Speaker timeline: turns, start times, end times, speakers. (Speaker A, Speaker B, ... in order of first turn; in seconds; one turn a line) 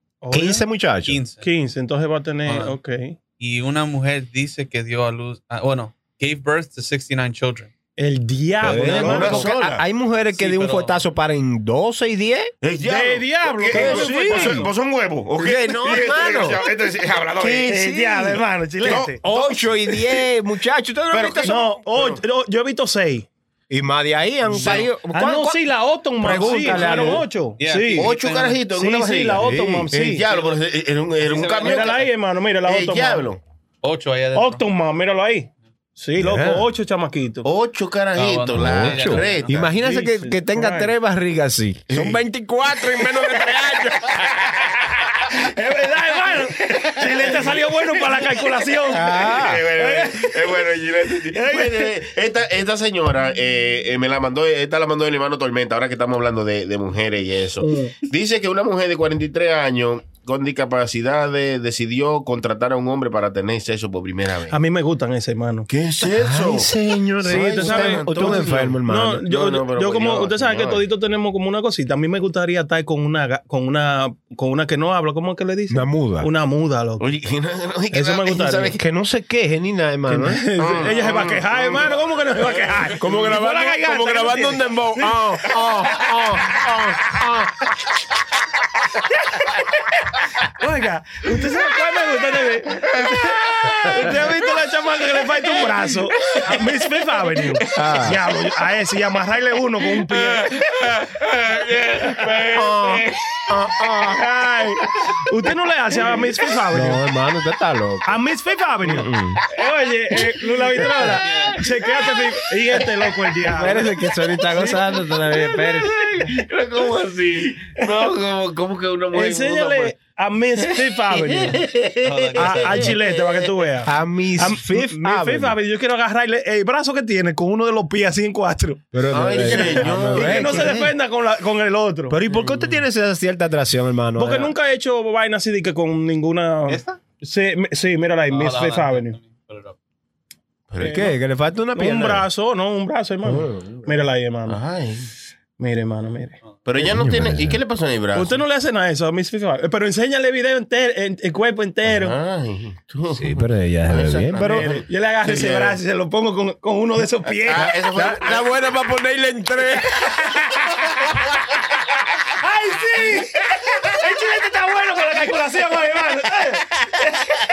Speaker A: 0.2-0.6
Speaker B: 0.3-1.2
Speaker C: 1.1-1.4
Speaker A: 1.4-3.1
Speaker C: 2.5-2.8
Speaker C: 3.4-7.7
Speaker A: 8.0-9.5
Speaker B: 8.6-12.5
Speaker D: 8.6-9.8
Speaker C: 10.3-11.0
Speaker D: 12.6-17.7
Speaker A: 12.8-14.7
Speaker B: 13.7-14.7
Speaker B: 15.4-16.6
Speaker B: 17.4-21.8
Speaker A: 17.6-19.2
Speaker D: 18.8-19.5
Speaker D: 21.1-22.2
Speaker A: 21.4-23.2
Speaker B: 23.7-25.6
Speaker D: 24.5-24.9
Speaker A: 24.7-28.2
Speaker B: 26.2-27.3
Speaker C: 26.4-27.0
Speaker C: 27.6-28.6
Speaker D: 27.9-32.0
Speaker A: 28.7-30.2
Speaker B: 29.3-29.9
Speaker C: 31.2-32.1
Speaker A: 31.6-33.2
Speaker D: 32.6-33.4
Speaker C: 33.8-34.6
Speaker A: 34.3-37.5
Speaker B: 36.2-36.6
Speaker D: 37.4-39.8
Speaker C: 38.1-39.6
Speaker B: 38.5-44.3
Speaker A: 39.7-40.9
Speaker D: 41.9-42.2
Speaker D: 42.7-44.7
Speaker A: 45.3-50.6
Speaker D: 46.7-47.6
Speaker B: 48.9-49.7
Speaker D: 49.3-64.6
Speaker A: 51.3-51.9
Speaker A: 57.6-57.9
Speaker A: 64.5-65.7
Speaker D: 65.7-70.8
Speaker B: 66.0-69.2
Speaker A: 67.2-77.0
Speaker B: 75.7-76.3
Speaker D: 77.0-78.8
Speaker A: 77.9-78.7
Speaker B: 78.8-80.8
Speaker A: 80.1-86.1
Speaker D: 80.6-83.2
Speaker B: 83.0-87.6
Speaker A: 90.6-100.5
Speaker D: 92.9-94.2
Speaker B: 93.9-94.3
Speaker D: 96.2-96.7
Speaker D: 97.2-98.3
Speaker B: 97.7-98.2
Speaker D: 100.1-103.5
Speaker A: 102.2-102.4
Speaker B: 102.5-104.3
Speaker A: 104.1-107.0
Speaker B: 106.7-108.2
Speaker A: 108.0-113.8
Speaker B: 108.8-109.4
Speaker D: 111.0-112.2
Speaker C: 111.2-111.6
Speaker D: 112.7-113.3
Speaker B: 113.4-116.1
Speaker D: 114.6-119.9
Speaker A: 119.1-121.6
Speaker D: 120.6-123.5
Speaker C: 122.0-123.0
Speaker A: 122.3-132.2
Speaker B: 123.8-125.5
Speaker B: 128.9-130.9
Speaker D: 129.1-130.8
Speaker B: 132.1-134.5
Speaker D: 132.4-132.7
Speaker A: 134.2-139.2
Speaker C: 136.7-137.0
Speaker C: 138.3-139.8
Speaker D: 140.7-141.1
Speaker B: 140.8-142.2
Speaker A: 140.8-141.1
Speaker A: 141.7-144.6
Speaker B: 143.2-143.9
Speaker D: 144.5-145.1
Speaker A: 145.6-146.4
Speaker D: 146.6-148.4
Speaker B: 146.8-147.6
Speaker A: 148.1-152.2
Speaker D: 151.8-155.8
Speaker B: 153.1-154.7
Speaker A: 154.4-157.8
Speaker D: 157.2-158.6
Speaker B: 157.9-160.3
Speaker A: 162.4-167.3